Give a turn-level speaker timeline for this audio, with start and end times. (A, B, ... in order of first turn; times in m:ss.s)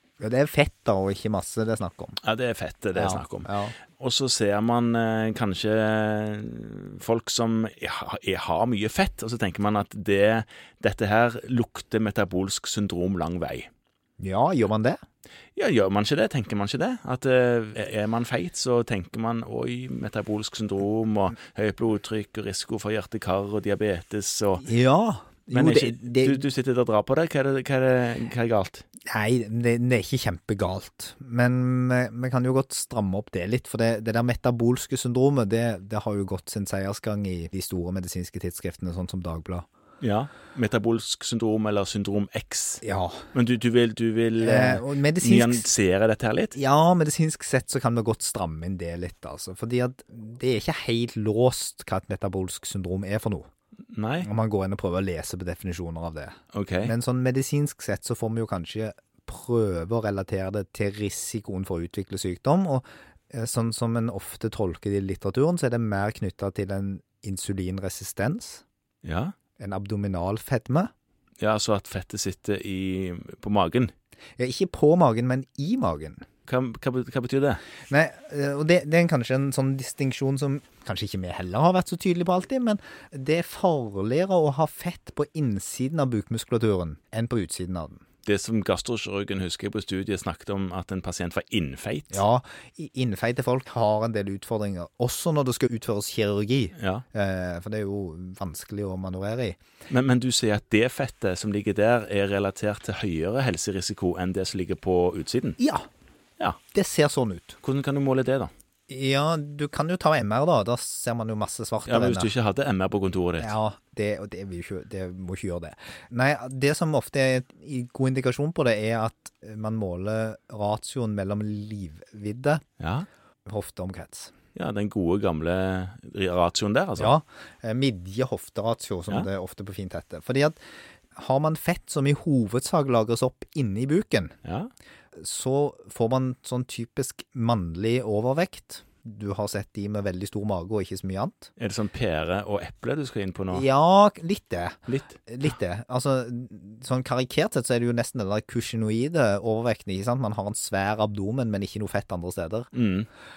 0:00.2-0:02.2 A
0:02.2-0:13.7 B
0:02.9-0:03.8 A
0:14.2-0:15.0 A
0:15.5-0:24.6 B
0:24.6-0:26.4 A
0:25.5-0:28.8 B
0:29.1-0:39.6 A
0:40.0-0:46.6 B
0:42.8-0:43.3 A
0:44.4-0:45.7 A
0:46.5-0:53.5 A
0:53.9-0:54.3 B
0:54.2-1:08.6 A
0:56.5-0:56.9 B
1:09.0-1:09.3 B
1:09.6-1:10.9 A
1:11.4-1:13.9 B
1:14.4-1:16.2 A
1:16.4-1:17.6 B
1:17.9-1:28.0 A
1:28.2-1:32.2 B
1:32.1-1:39.6 A
1:36.8-1:37.0 B
1:39.9-1:45.6 B
1:45.6-1:45.9 A
1:46.7-1:47.6 A
1:47.6-1:48.5 B
1:48.9-1:52.3 A
1:51.8-1:53.6 B
1:53.4-2:02.6 A
2:02.8-2:03.1 B
2:03.4-2:04.3 A
2:04.5-2:07.1 B
2:07.0-2:10.6 A
2:11.1-2:14.3 A
2:14.4-2:14.7 B
2:15.1-2:21.5 A
2:21.6-2:23.6 B
2:23.5-2:32.7 A
2:24.9-2:25.5 B
2:32.7-2:33.1 B